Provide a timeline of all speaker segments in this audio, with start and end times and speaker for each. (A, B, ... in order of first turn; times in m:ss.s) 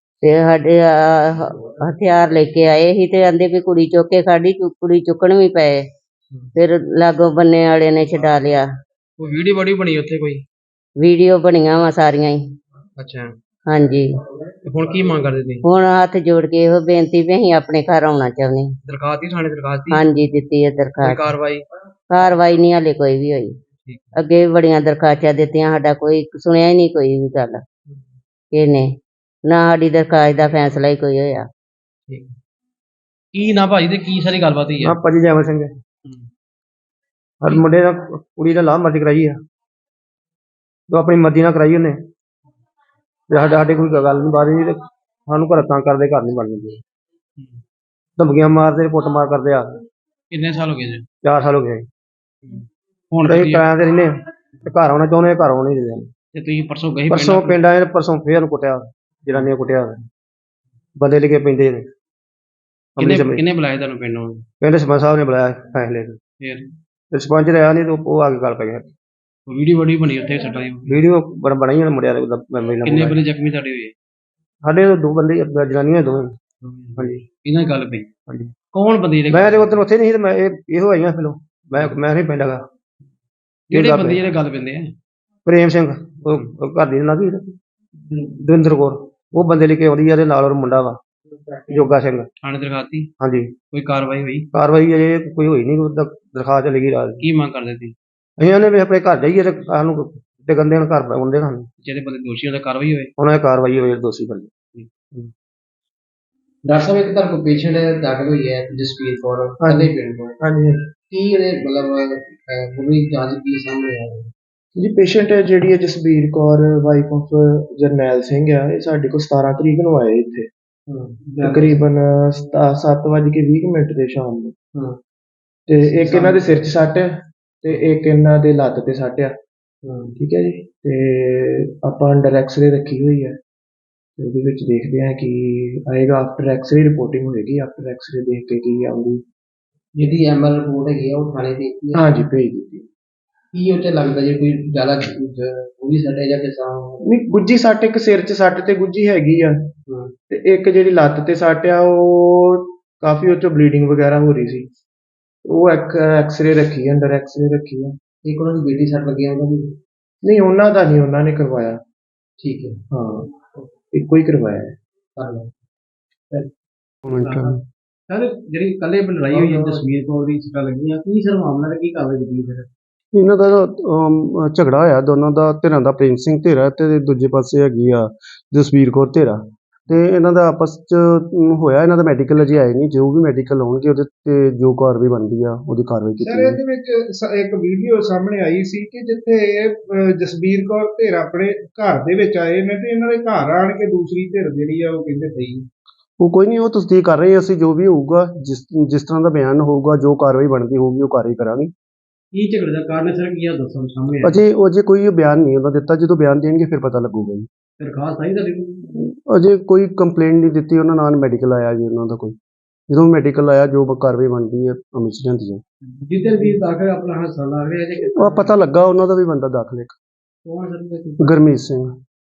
0:00.2-0:05.8 A
0:06.6-0:08.7 A
0:09.2-0:10.4 B
0:11.0-0:12.4 A
0:13.0-0:13.3 B
0:13.7-0:14.1 A
0:14.6-0:15.6 B
0:15.6-0:18.8 A
0:18.8-0:20.1 B
0:19.9-0:21.3 A
0:21.0-0:21.6 B
0:22.1-0:23.5 A
0:23.8-0:24.1 B
0:24.2-0:27.6 A
0:28.5-0:28.9 A
0:29.4-0:31.5 A
0:32.1-0:32.3 B
0:33.3-0:35.0 B
0:34.8-0:35.7 C
0:37.4-0:39.4 C
0:40.9-0:42.0 C
0:43.3-0:46.8 C
0:48.2-0:49.7 C
0:50.3-0:51.1 B
0:51.2-0:51.8 C
0:52.4-0:53.6 B
0:53.2-0:56.1 C
0:56.3-0:57.6 B
0:57.1-1:00.0 C
1:01.0-1:01.9 C
1:03.0-1:03.4 C
1:03.0-1:04.4 B
1:04.6-1:06.2 C
1:06.4-1:06.7 B
1:07.1-1:08.9 C
1:09.5-1:11.0 B
1:10.9-1:13.2 C
1:12.8-1:13.9 B
1:14.6-1:16.4 C
1:16.6-1:18.1 B
1:17.0-1:17.2 C
1:18.3-1:18.5 C
1:18.7-1:19.8 B
1:19.3-1:22.6 C
1:23.7-1:24.2 C
1:23.7-1:24.9 B
1:25.4-1:27.6 C
1:28.3-1:31.0 C
1:31.7-1:32.3 C
1:32.4-1:33.1 B
1:33.2-1:33.6 C
1:33.7-1:34.5 B
1:34.5-1:37.2 C
1:37.2-1:38.0 B
1:38.4-1:41.7 C
1:41.8-1:43.1 B
1:43.2-1:44.5 C
1:46.7-1:50.4 B
1:50.4-1:50.8 D
1:51.1-1:54.3 B
1:54.8-2:00.5 D
2:00.9-2:01.8 B
2:01.4-2:04.5 D
2:05.7-2:09.4 D
2:05.8-2:06.7 B
2:09.8-2:10.1 B
2:10.2-2:13.4 D
2:14.2-2:19.2 D
2:20.0-2:22.1 B
2:21.9-2:22.8 D
2:23.5-2:27.0 B
2:27.0-2:29.6 D
2:29.9-2:30.1 B
2:30.3-2:34.7 D
2:35.4-2:37.9 D
2:38.2-2:39.7 B
2:40.2-2:41.8 D
2:42.4-2:42.8 B
2:42.9-2:43.3 D
2:43.9-2:44.8 D
2:45.2-2:45.5 B
2:47.0-2:47.6 E
2:47.2-2:47.6 B
2:48.1-2:52.7 B
2:53.1-3:06.6 E
3:06.2-3:15.7 F
3:16.2-3:21.7 E
3:22.3-3:24.4 B
3:24.2-3:27.5 E
3:27.8-3:29.0 B
3:28.9-3:32.4 E
3:32.9-3:35.6 E
3:35.8-3:38.5 B
3:38.0-3:40.0 E
3:40.4-3:41.4 B
3:41.2-3:42.0 E